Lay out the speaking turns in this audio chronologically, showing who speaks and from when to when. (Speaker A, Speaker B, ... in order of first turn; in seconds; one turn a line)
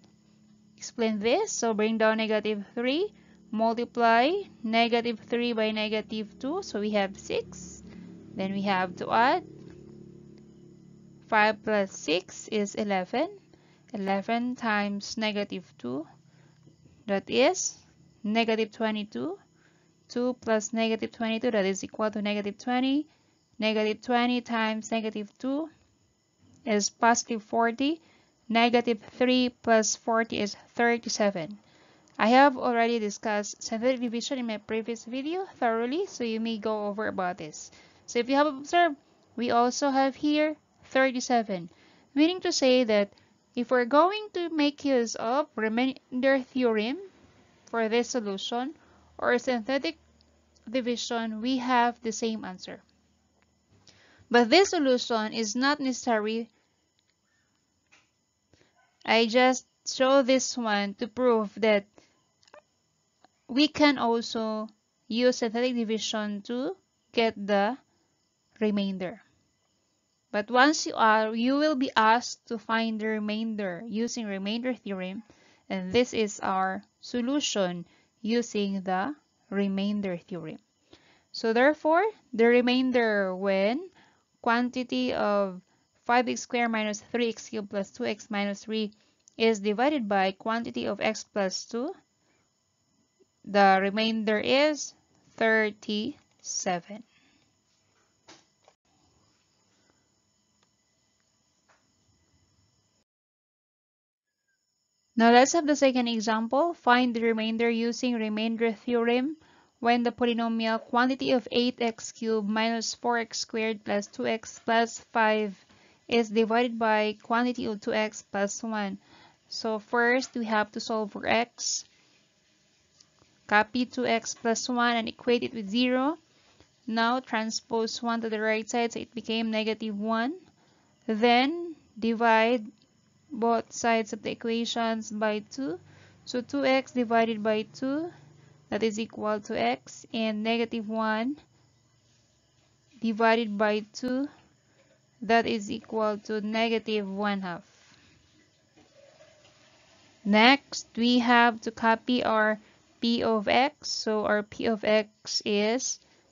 Speaker A: 0.8-7.8
Speaker A: 8.3-9.5
Speaker A: 11.2-13.3
Speaker A: 13.9-16.1
Speaker A: 17.1-19.4
Speaker A: 20.1-25.7
Speaker A: 26.7-31.6
Speaker A: 32.2-47.1
Speaker A: 47.7-50.0
Speaker A: 50.7-52.8
Speaker A: 54.3-56.5
Speaker A: 59.1-61.9
Speaker A: 63.5-67.8
Speaker A: 68.6-69.2
Speaker A: 70.3-80.6
Speaker A: 81.3-83.9
Speaker A: 84.4-91.9
Speaker A: 93.5-97.1
Speaker A: 105.2-121.9
Speaker A: 123.5-126.2
Speaker A: 126.9-130.4
Speaker A: 131.1-132.7
Speaker A: 133.3-138.1
Speaker A: 138.7-141.4
Speaker A: 143.0-144.3
Speaker A: 145.2-147.9
Speaker A: 150.3-156.0